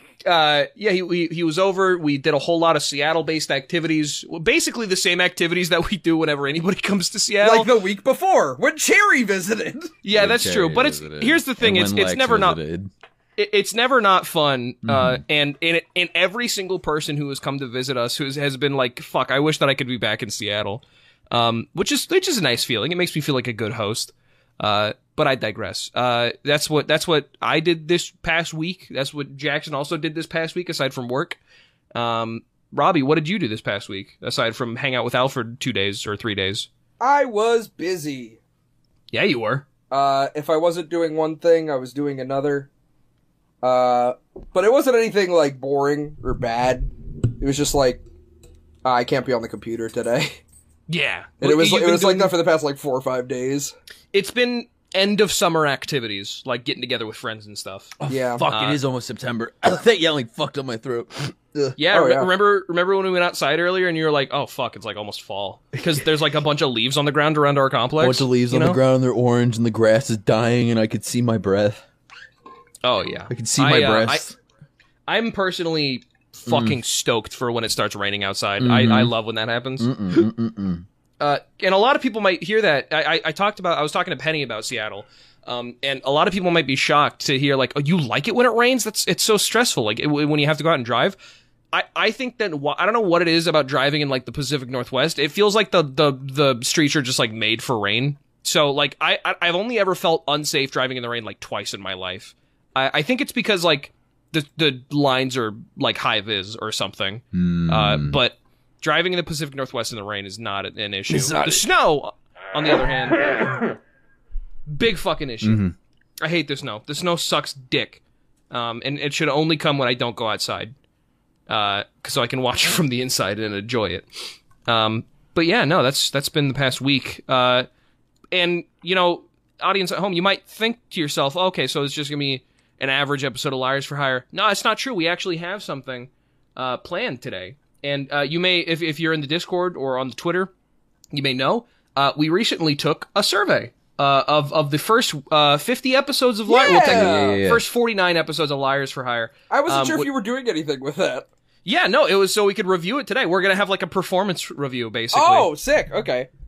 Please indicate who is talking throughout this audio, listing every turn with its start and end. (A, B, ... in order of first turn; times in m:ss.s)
0:00.2-0:07.7 A
0:07.4-0:09.9 B
0:10.0-0:12.6 A
0:10.1-0:12.9 C
0:13.4-0:31.4 A
0:14.8-0:15.2 C
0:31.9-0:36.7 A
0:37.0-0:38.4 B
0:39.1-0:39.6 A
0:39.9-0:42.7 B
0:43.6-0:48.0 B
0:48.8-0:50.4 B
0:50.9-0:52.3 A
0:51.4-0:53.7 B
0:54.1-0:57.9 A
0:58.0-1:01.7 C
0:58.1-0:58.4 B
0:58.5-0:58.8 A
1:01.8-1:08.8 A
1:01.9-1:02.3 B
1:08.0-1:11.8 C
1:12.8-1:14.3 A
1:13.3-1:14.3 C
1:15.1-1:20.3 A
1:16.5-1:16.8 C
1:18.6-1:19.1 C
1:19.8-1:20.8 C
1:21.2-1:31.2 A
1:31.7-1:53.6 A
1:47.3-1:48.2 C
1:51.1-1:51.6 B
1:54.7-1:55.6 A
1:55.4-1:55.7 C
1:56.2-1:58.0 A
1:58.5-2:00.7 A
2:01.5-2:04.1 A
2:04.6-2:07.7 A
2:08.3-2:20.5 A
2:21.1-2:30.1 A
2:26.5-2:27.4 B
2:26.8-2:27.6 C
2:29.5-2:31.3 B
2:31.6-2:35.5 A
2:35.1-2:36.3 B